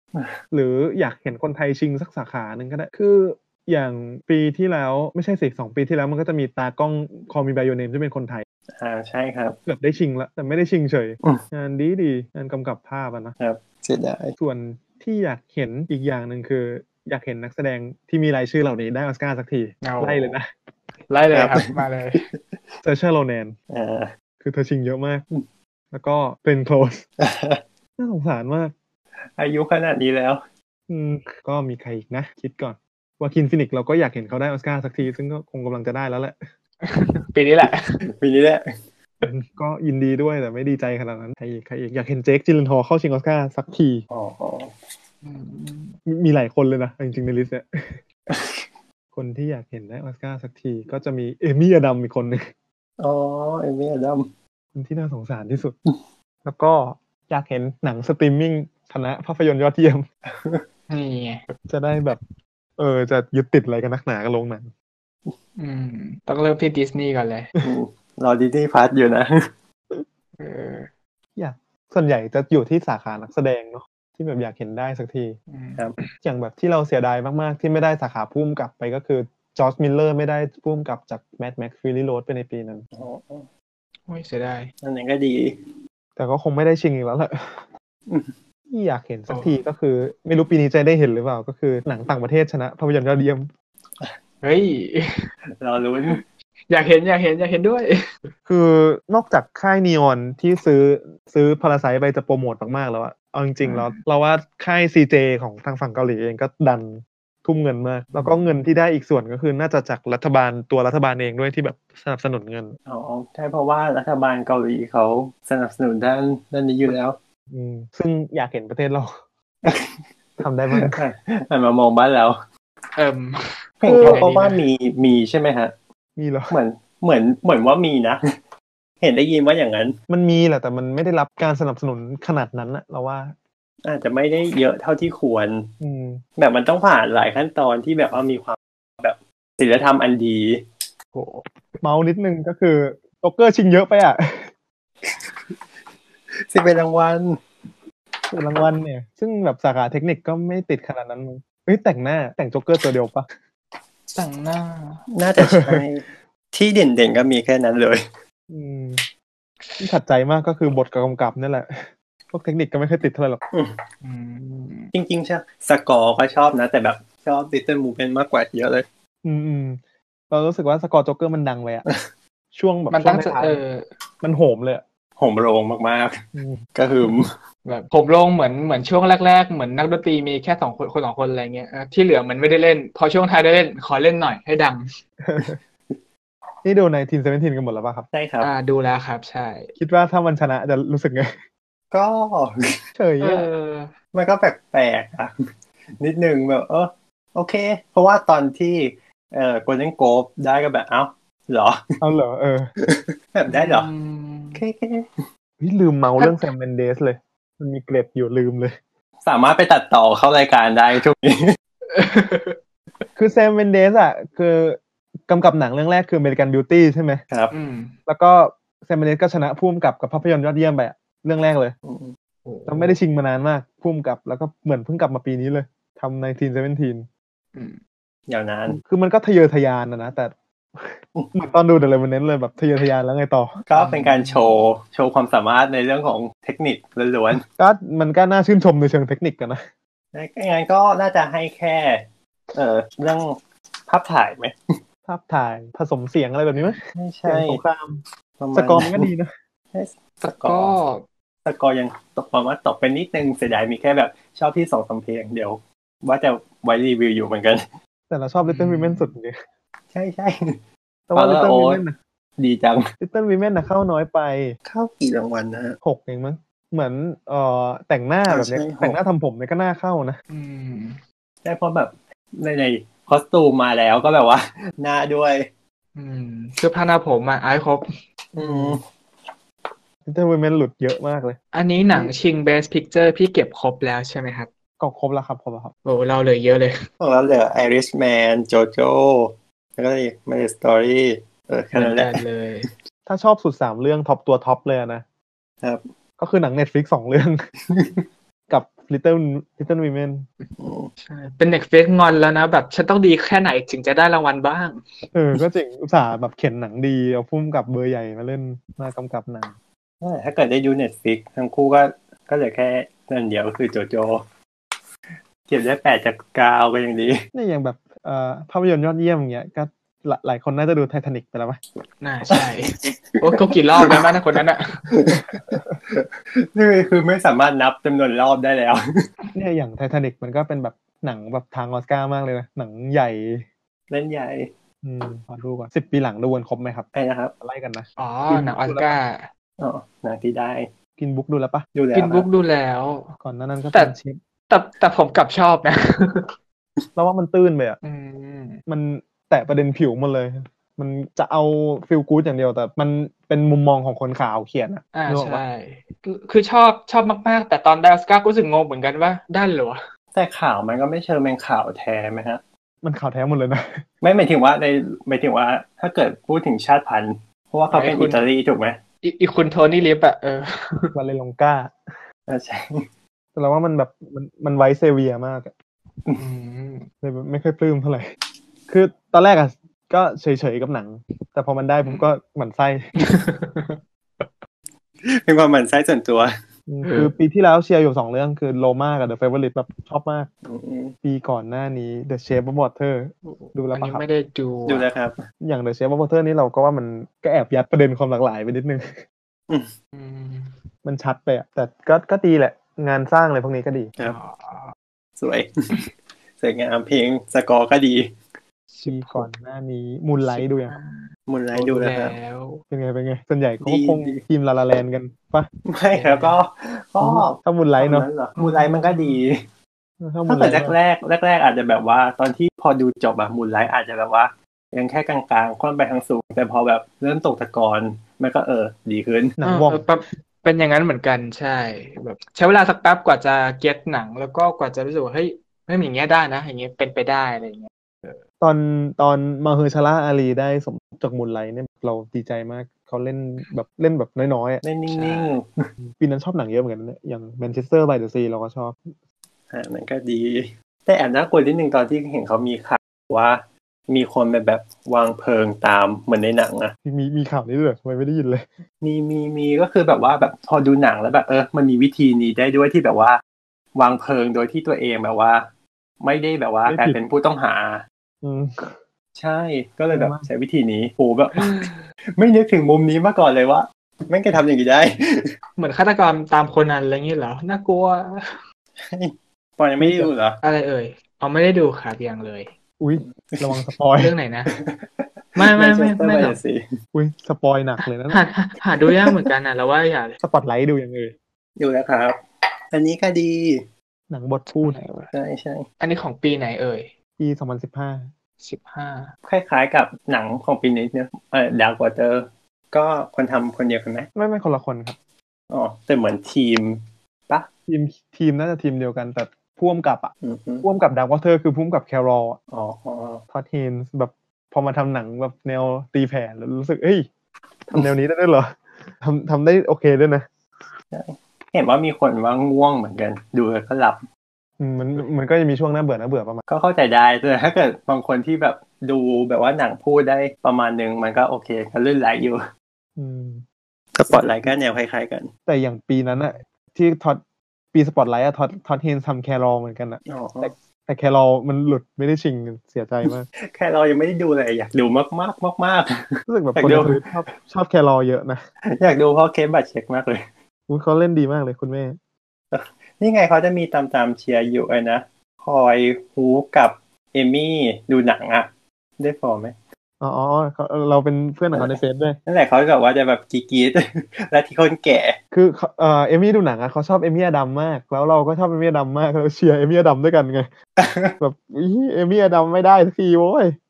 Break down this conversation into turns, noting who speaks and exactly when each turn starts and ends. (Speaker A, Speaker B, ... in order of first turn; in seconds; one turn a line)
Speaker A: 0.5-8.4
Speaker B: 8.7-9.6
Speaker A: 9.7-13.3
Speaker B: 13.4-14.3
Speaker A: 14.4-20.5
Speaker C: 19.8-20.4
Speaker C: 21.1-22.2
Speaker B: 21.3-22.4
Speaker A: 22.8-23.6
Speaker B: 23.7-24.1
Speaker A: 24.4-25.2
Speaker A: 25.9-27.0
Speaker B: 27.2-27.6
Speaker A: 28.0-28.7
Speaker B: 29.4-30.4
Speaker A: 30.9-36.4
Speaker C: 36.8-38.0
Speaker B: 37.6-38.7
Speaker A: 39.2-44.0
Speaker B: 44.1-44.7
Speaker C: 45.2-46.0
Speaker A: 46.1-48.0
Speaker B: 48.3-48.7
Speaker A: 49.1-52.5
Speaker B: 53.0-54.3
Speaker A: 54.7-55.8
Speaker A: 56.4-60.1
Speaker B: 60.3-60.6
Speaker C: 60.9-61.6
Speaker A: 61.7-62.2
Speaker A: 62.8-64.7
Speaker C: 65.6-67.5
Speaker B: 67.6-69.5
Speaker C: 70.4-70.9
Speaker A: 71.3-75.4
Speaker C: 75.5-76.1
Speaker A: 76.2-82.8
Speaker B: 82.9-83.5
Speaker C: 84.1-84.7
Speaker B: 84.8-85.7
Speaker A: 86.2-87.7
Speaker B: 88.1-88.4
Speaker A: 88.7-93.5
Speaker C: 94.4-95.3
Speaker B: 95.6-96.2
Speaker C: 96.7-97.9
Speaker A: 98.5-112.8
Speaker C: 103.6-104.0
Speaker C: 108.1-108.6
Speaker B: 112.9-117.2
Speaker A: 117.5-119.2
Speaker B: 119.6-120.0
Speaker A: 120.4-121.0
Speaker B: 120.7-122.4
Speaker C: 123.0-124.6
Speaker B: 123.8-125.7
Speaker A: 123.8-124.2
Speaker A: 126.2-126.6
Speaker B: 126.5-128.2
Speaker B: 129.0-130.0
Speaker A: 130.1-133.3
Speaker B: 133.8-135.7
Speaker A: 135.8-136.2
Speaker B: 136.4-140.6
Speaker C: 141.1-141.8
Speaker A: 141.8-144.5
Speaker B: 145.0-145.6
Speaker B: 146.5-147.4
Speaker A: 148.3-153.3
Speaker C: 154.1-155.0
Speaker B: 155.1-158.0
Speaker A: 155.4-155.8
Speaker A: 158.5-159.0
Speaker A: 159.8-163.4
Speaker B: 163.5-163.8
Speaker C: 164.0-164.9
Speaker B: 164.9-168.8
Speaker A: 169.2-171.8
Speaker A: 172.5-173.6
Speaker C: 172.9-173.8
Speaker A: 174.2-174.8
Speaker B: 175.2-176.2
Speaker A: 176.3-176.6
Speaker B: 176.7-177.3
Speaker C: 177.6-184.9
Speaker A: 185.2-185.6
Speaker B: 185.4-186.0
Speaker A: 186.6-188.1
Speaker B: 188.1-188.5
Speaker C: 188.4-189.7
Speaker A: 189.8-191.4
Speaker B: 191.9-192.8
Speaker A: 192.9-193.5
Speaker C: 193.2-193.9
Speaker B: 194.1-195.3
Speaker B: 196.0-201.8
Speaker A: 202.0-202.7
Speaker B: 202.8-203.9
Speaker C: 203.5-204.6
Speaker B: 204.5-205.2
Speaker A: 205.6-208.8
Speaker B: 209.2-211.6
Speaker C: 211.9-212.6
Speaker A: 213.2-217.2
Speaker C: 217.5-217.9
Speaker A: 218.1-221.7
Speaker B: 221.8-222.1
Speaker C: 222.4-223.0
Speaker A: 222.7-227.1
Speaker C: 227.5-227.8
Speaker B: 228.3-228.8
Speaker A: 228.7-233.6
Speaker B: 233.7-237.4
Speaker C: 233.7-234.5
Speaker A: 237.3-239.6
Speaker B: 240.1-244.6
Speaker A: 245.1-248.0
Speaker B: 246.9-247.6
Speaker B: 248.4-249.1
Speaker A: 248.5-249.3
Speaker B: 249.7-250.7
Speaker C: 250.2-251.0
Speaker B: 251.4-257.6
Speaker A: 258.1-259.4
Speaker C: 258.4-259.1
Speaker B: 259.9-260.6
Speaker A: 261.1-261.9
Speaker B: 261.1-261.8
Speaker B: 262.4-262.9
Speaker A: 263.0-264.6
Speaker B: 264.6-265.8
Speaker A: 265.8-270.2
Speaker B: 268.3-269.0
Speaker C: 270.3-271.0
Speaker B: 271.4-275.5
Speaker C: 275.9-277.9
Speaker B: 278.3-278.8
Speaker A: 278.4-278.8
Speaker A: 280.1-281.4
Speaker C: 281.5-284.5
Speaker A: 284.8-285.7
Speaker C: 285.8-286.8
Speaker B: 287.0-292.2
Speaker C: 291.7-292.7
Speaker A: 293.1-295.0
Speaker A: 296.2-297.4
Speaker B: 297.7-298.0
Speaker A: 298.5-300.2
Speaker C: 300.4-305.0
Speaker B: 300.6-300.9
Speaker A: 305.1-309.5
Speaker B: 310.0-314.2
Speaker B: 315.5-317.2
Speaker A: 317.3-321.6
Speaker C: 322.0-324.9
Speaker B: 322.3-323.2
Speaker B: 323.8-324.1
Speaker B: 324.9-328.8
Speaker A: 329.3-333.4
Speaker B: 333.9-334.5
Speaker A: 334.8-336.9
Speaker B: 336.9-337.3
Speaker A: 337.4-339.0
Speaker C: 338.0-339.3
Speaker B: 339.6-340.7
Speaker A: 341.0-341.6
Speaker B: 341.7-342.3
Speaker C: 341.9-343.1
Speaker A: 343.2-344.2
Speaker C: 344.5-346.3
Speaker A: 346.9-347.8
Speaker C: 347.8-348.6
Speaker A: 348.7-355.4
Speaker C: 354.9-359.8
Speaker B: 360.1-362.4
Speaker A: 362.8-363.8
Speaker B: 364.0-368.8
Speaker C: 367.7-368.2
Speaker C: 369.0-370.9
Speaker A: 370.9-371.8
Speaker B: 372.3-372.9
Speaker A: 373.3-375.5
Speaker C: 376.2-376.9
Speaker A: 377.0-378.1
Speaker A: 378.7-382.8
Speaker C: 382.9-384.3
Speaker B: 385.0-386.3
Speaker A: 386.7-390.3
Speaker C: 386.9-387.1
Speaker B: 390.4-390.9
Speaker A: 391.0-394.0
Speaker C: 393.3-394.9
Speaker B: 394.7-395.2
Speaker A: 395.4-399.0
Speaker C: 399.9-400.5
Speaker A: 400.8-403.9
Speaker C: 404.0-404.7
Speaker B: 405.2-405.9
Speaker B: 406.4-408.2
Speaker C: 408.7-409.3
Speaker A: 408.8-410.8
Speaker C: 410.3-412.6
Speaker B: 411.3-412.1
Speaker A: 412.7-415.5
Speaker B: 413.6-414.2
Speaker B: 415.6-419.4
Speaker C: 415.9-416.4
Speaker A: 417.0-418.1
Speaker C: 418.4-419.2
Speaker A: 420.0-420.8
Speaker B: 420.2-429.4
Speaker A: 429.4-429.8
Speaker C: 429.4-438.2
Speaker A: 438.4-444.6
Speaker B: 444.6-445.5
Speaker C: 444.9-445.3
Speaker A: 445.9-448.9
Speaker B: 449.5-456.7
Speaker A: 456.8-458.5
Speaker B: 458.8-463.2
Speaker B: 463.7-465.4
Speaker B: 466.0-467.8
Speaker A: 466.7-467.0
Speaker A: 468.2-468.8
Speaker B: 469.1-475.3
Speaker A: 469.9-470.2
Speaker C: 471.4-471.8
Speaker C: 475.6-478.4
Speaker B: 478.8-480.4
Speaker A: 479.8-480.1
Speaker C: 480.4-482.5
Speaker A: 482.8-484.1
Speaker B: 483.3-483.6
Speaker C: 484.0-484.5
Speaker B: 484.5-486.6
Speaker C: 485.4-486.4
Speaker A: 486.9-488.2
Speaker C: 488.1-490.2
Speaker B: 488.9-489.2
Speaker A: 490.2-491.1
Speaker B: 491.6-493.6
Speaker A: 494.1-494.8
Speaker C: 494.6-495.1
Speaker B: 495.1-495.7
Speaker C: 495.8-496.9
Speaker A: 497.2-498.1
Speaker C: 498.4-499.1
Speaker B: 499.2-504.1
Speaker A: 504.1-504.9
Speaker B: 505.5-507.5
Speaker A: 507.7-510.1
Speaker B: 510.2-510.6
Speaker A: 510.6-512.4
Speaker B: 512.5-513.2
Speaker A: 513.3-517.1
Speaker A: 517.7-520.3
Speaker B: 520.9-524.0
Speaker A: 524.6-526.4
Speaker B: 526.5-532.4
Speaker A: 533.0-533.4
Speaker B: 533.9-535.3
Speaker A: 534.1-534.5
Speaker A: 535.5-537.2
Speaker A: 537.7-543.2
Speaker B: 540.1-540.5
Speaker B: 543.1-547.0
Speaker A: 546.3-548.4
Speaker B: 548.8-550.2
Speaker A: 550.7-552.0
Speaker B: 552.5-559.5
Speaker A: 560.0-562.2
Speaker B: 561.5-565.2
Speaker A: 565.3-570.5
Speaker B: 570.8-571.1
Speaker A: 571.2-573.5